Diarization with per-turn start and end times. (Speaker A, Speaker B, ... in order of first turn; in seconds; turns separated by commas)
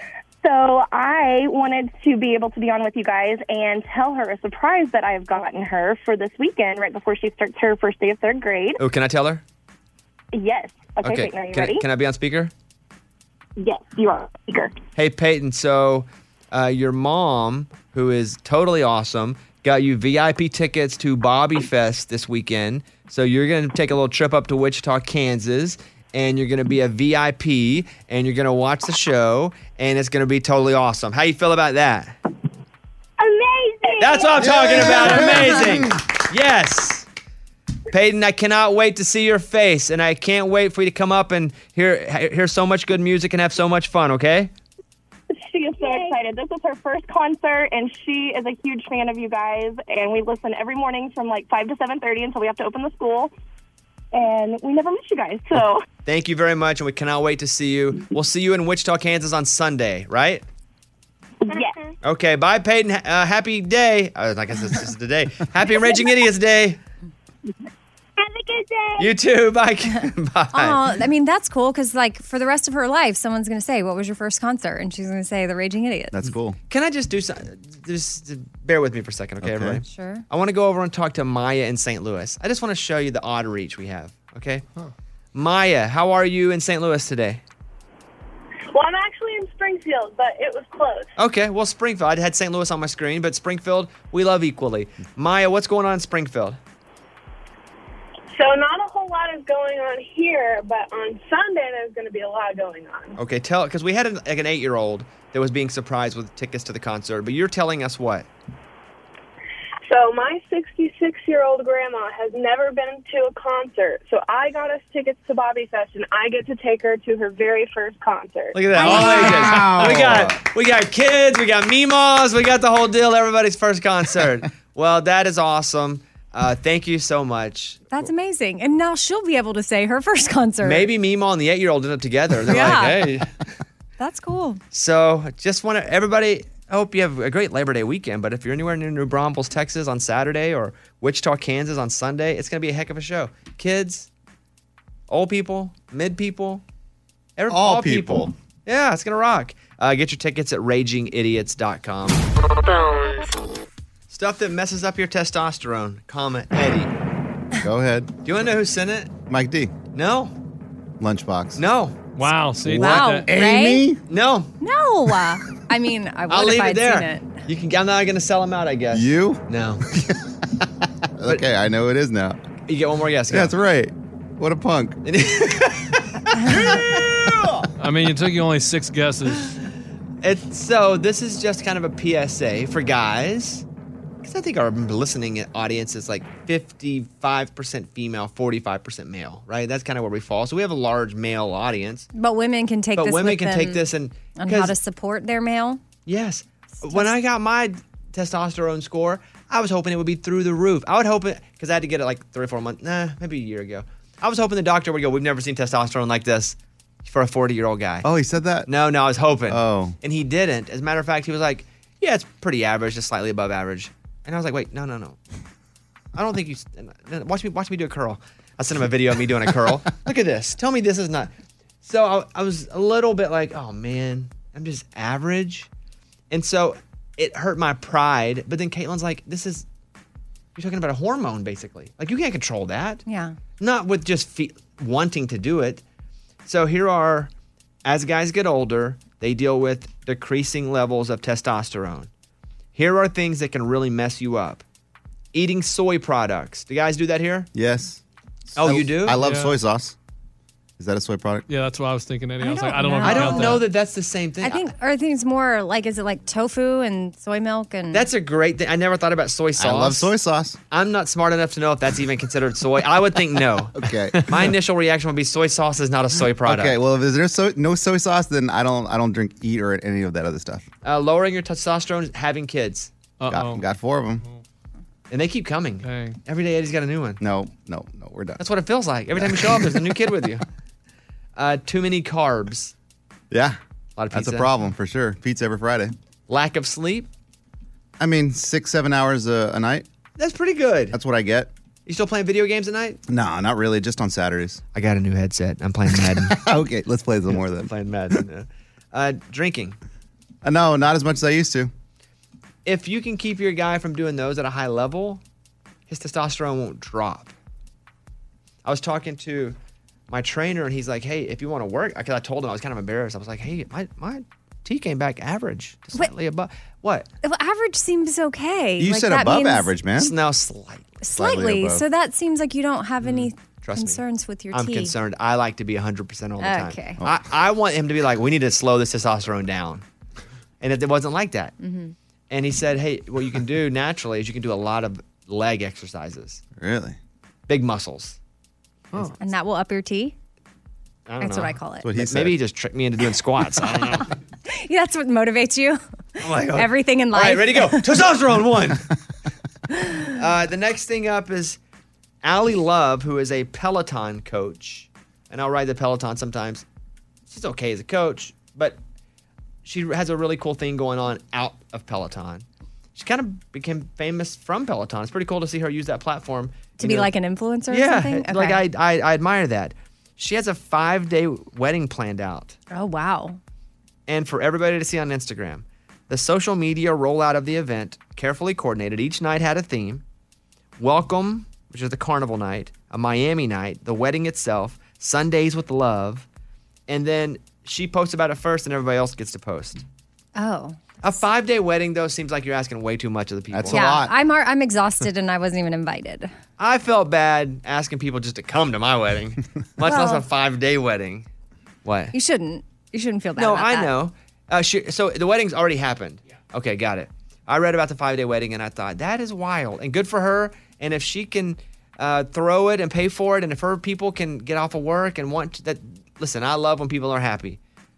Speaker A: 0.4-8.8, Speaker B: 8.8-9.4, Speaker A: 10.3-11.8, Speaker B: 11.0-12.5, Speaker A: 13.6-14.7, Speaker B: 14.9-32.1, Speaker A: 33.2-35.0, Speaker B: 34.0-37.0, Speaker C: 34.4-35.9, Speaker B: 37.9-44.5, Speaker A: 45.4-53.3, Speaker A: 54.1-55.8, Speaker B: 56.0-60.4, Speaker A: 61.5-61.9, Speaker B: 62.0-66.8, Speaker A: 68.2-69.1, Speaker B: 69.0-70.8, Speaker D: 70.5-76.1, Speaker C: 76.1-76.6, Speaker B: 76.7-84.6, Speaker C: 79.4-79.8, Speaker D: 79.9-80.2, Speaker B: 85.3-87.4, Speaker E: 88.7-91.1, Speaker B: 91.2-96.6, Speaker E: 98.3-103.2, Speaker B: 103.2-108.2, Speaker E: 109.8-118.6, Speaker B: 118.5-128.1, Speaker D: 118.7-119.7, Speaker C: 118.8-120.3, Speaker D: 127.9-130.9, Speaker B: 130.6-133.3, Speaker D: 132.5-133.0, Speaker D: 134.0-134.6, Speaker B: 134.7-144.1, Speaker B: 145.1-146.6, Speaker B: 147.4-152.2, Speaker C: 147.5-148.3, Speaker B: 154.1-156.9, Speaker C: 157.6-158.1, Speaker B: 158.2-159.1, Speaker C: 159.3-159.7, Speaker B: 159.9-160.3, Speaker C: 161.0-161.6, Speaker B: 161.6-162.0, Speaker F: 162.2-163.3, Speaker C: 162.6-164.0, Speaker D: 162.8-163.8, Speaker B: 164.1-164.5, Speaker D: 164.6-167.4, Speaker B: 166.3-169.8, Speaker C: 168.9-170.3, Speaker C: 171.2-172.4, Speaker B: 172.7-173.5, Speaker C: 173.3-175.0, Speaker B: 175.0-177.6, Speaker D: 176.3-176.8, Speaker C: 176.5-177.3, Speaker F: 177.8-179.5, Speaker B: 179.3-179.7, Speaker B: 180.2-183.6, Speaker B: 184.2-192.1, Speaker D: 192.1-193.8, Speaker B: 192.9-194.7, Speaker D: 194.3-195.8, Speaker B: 196.1-208.1, Speaker D: 196.8-197.1, Speaker C: 208.0-208.7, Speaker B: 208.7-215.2, Speaker C: 209.5-209.9, Speaker B: 216.1-221.3, Speaker B: 221.8-225.7, Speaker B: 226.3-229.6, Speaker B: 230.6-233.0, Speaker D: 233.1-233.4, Speaker B: 233.6-235.8, Speaker B: 236.4-237.3, Speaker B: 237.8-242.1, Speaker B: 242.7-244.6, Speaker B: 245.3-247.5, Speaker C: 247.5-249.9, Speaker B: 248.6-249.2, Speaker F: 249.1-249.5, Speaker C: 250.8-251.4, Speaker F: 251.5-253.6, Speaker D: 252.4-253.6, Speaker B: 253.0-254.7, Speaker D: 254.4-258.1, Speaker B: 257.9-260.1, Speaker C: 259.6-260.6, Speaker B: 260.7-263.7, Speaker C: 263.7-264.2, Speaker B: 264.2-266.8, Speaker C: 266.4-270.6, Speaker B: 270.8-272.9, Speaker F: 273.2-273.6, Speaker C: 273.3-274.2, Speaker B: 275.1-277.2, Speaker F: 275.8-276.2, Speaker C: 277.2-278.4, Speaker B: 278.4-280.4, Speaker C: 279.1-279.9, Speaker B: 281.4-282.7, Speaker C: 283.3-283.6, Speaker B: 284.0-284.6, Speaker C: 284.1-285.9, Speaker B: 286.3-287.1, Speaker C: 288.0-289.9, Speaker B: 290.2-290.9, Speaker C: 290.9-291.5, Speaker B: 291.9-293.0, Speaker C: 293.1-294.6, Speaker B: 294.7-296.4, Speaker C: 296.1-297.7, Speaker B: 297.3-299.8, Speaker C: 300.4-301.7, Speaker B: 302.6-305.2, Speaker B: 305.9-307.3, Speaker B: 308.6-309.6, Speaker B: 310.1-317.1, Speaker D: 317.2-319.7, Speaker C: 318.8-320.1, Speaker B: 320.0-321.0, Speaker D: 321.0-324.9, Speaker C: 321.1-321.8, Speaker B: 323.0-324.0, Speaker B: 324.5-329.8, Speaker D: 326.4-327.0, Speaker B: 330.6-331.5, Speaker D: 331.6-331.9, Speaker B: 332.3-336.4, Speaker C: 336.6-337.0, Speaker B: 337.5-338.2, Speaker D: 339.2-340.1, Speaker B: 341.1-344.1, Speaker D: 341.2-341.9, Speaker C: 341.8-342.3, Speaker D: 344.5-345.8, Speaker B: 346.2-348.8, Speaker D: 346.5-347.8, Speaker D: 349.7-350.0, Speaker B: 350.1-351.6, Speaker B: 352.2-356.6, Speaker B: 357.3-358.8, Speaker B: 359.6-367.1, Speaker D: 366.8-368.6, Speaker B: 367.7-372.6, Speaker D: 372.7-373.4, Speaker B: 374.1-380.0, Speaker B: 380.8-386.2, Speaker B: 386.9-389.8, Speaker D: 390.4-391.0, Speaker B: 391.0-393.9, Speaker C: 393.5-394.1, Speaker D: 393.7-396.3, Speaker B: 396.6-401.2, Speaker D: 399.8-400.2, Speaker B: 401.8-402.1, Speaker D: 402.1-403.9, Speaker B: 403.4-417.6